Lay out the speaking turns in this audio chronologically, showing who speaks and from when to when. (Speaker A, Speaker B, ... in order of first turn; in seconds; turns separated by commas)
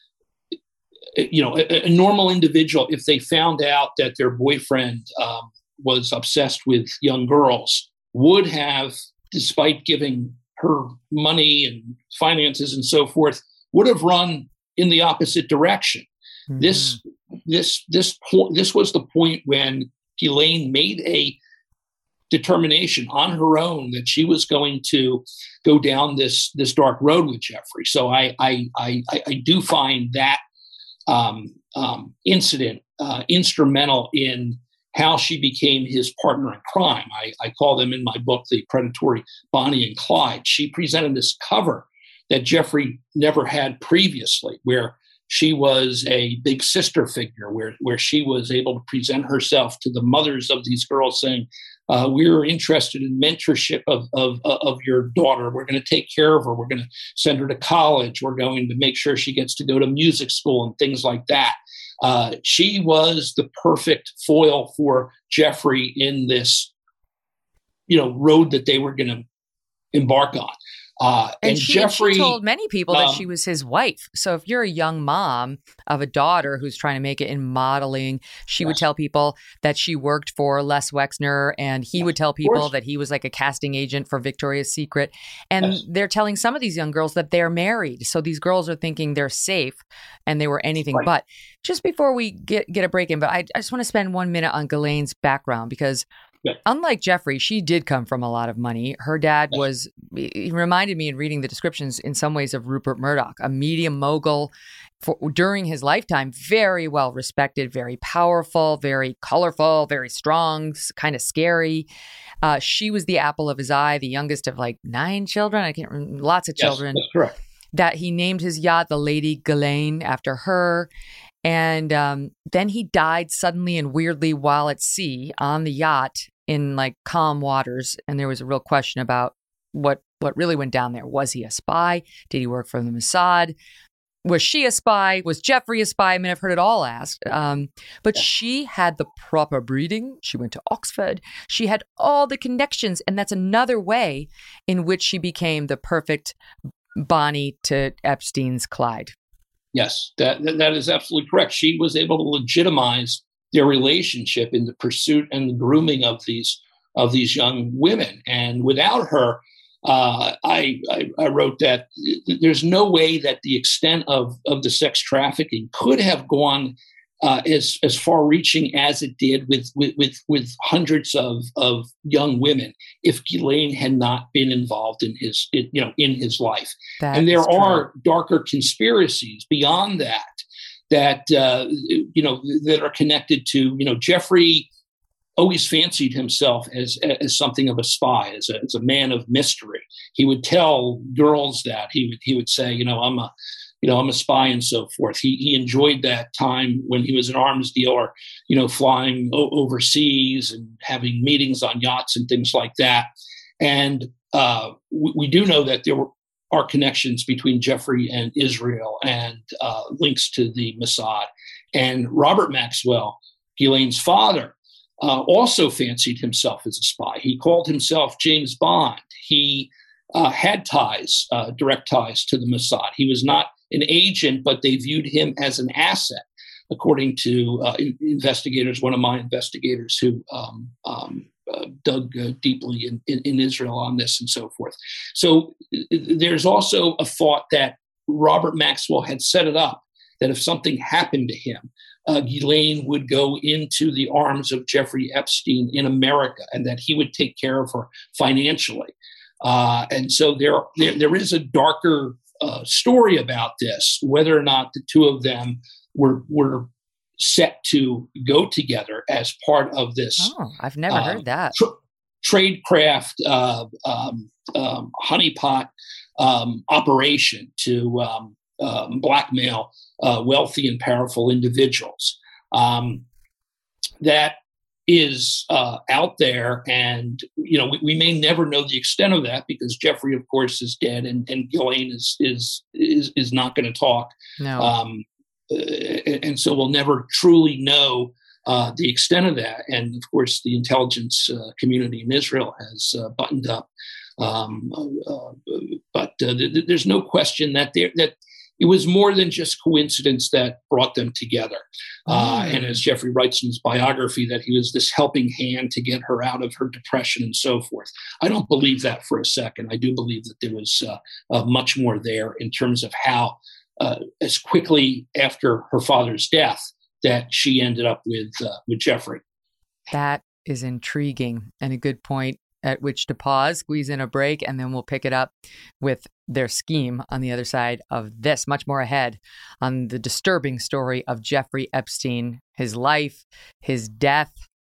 Speaker A: 1.1-21.4, Speaker B: 16.5-17.0, Speaker A: 22.3-30.4, Speaker A: 31.1-66.7, Speaker A: 67.9-69.2, Speaker A: 69.9-72.4, Speaker B: 71.4-96.0, Speaker A: 72.9-73.2, Speaker A: 82.0-82.7, Speaker B: 96.7-111.9, Speaker B: 112.4-117.0, Speaker A: 116.6-117.4, Speaker B: 117.7-120.9, Speaker B: 121.4-133.6, Speaker B: 134.2-146.4, Speaker B: 147.0-149.1, Speaker A: 149.7-180.3, Speaker B: 177.0-177.9, Speaker A: 180.9-184.7, Speaker A: 185.4-193.3, Speaker A: 193.8-203.1, Speaker A: 203.6-260.3, Speaker B: 260.2-261.6, Speaker A: 260.9-273.1, Speaker A: 274.0-319.2, Speaker B: 284.4-284.7, Speaker B: 302.1-302.8, Speaker B: 319.9-334.4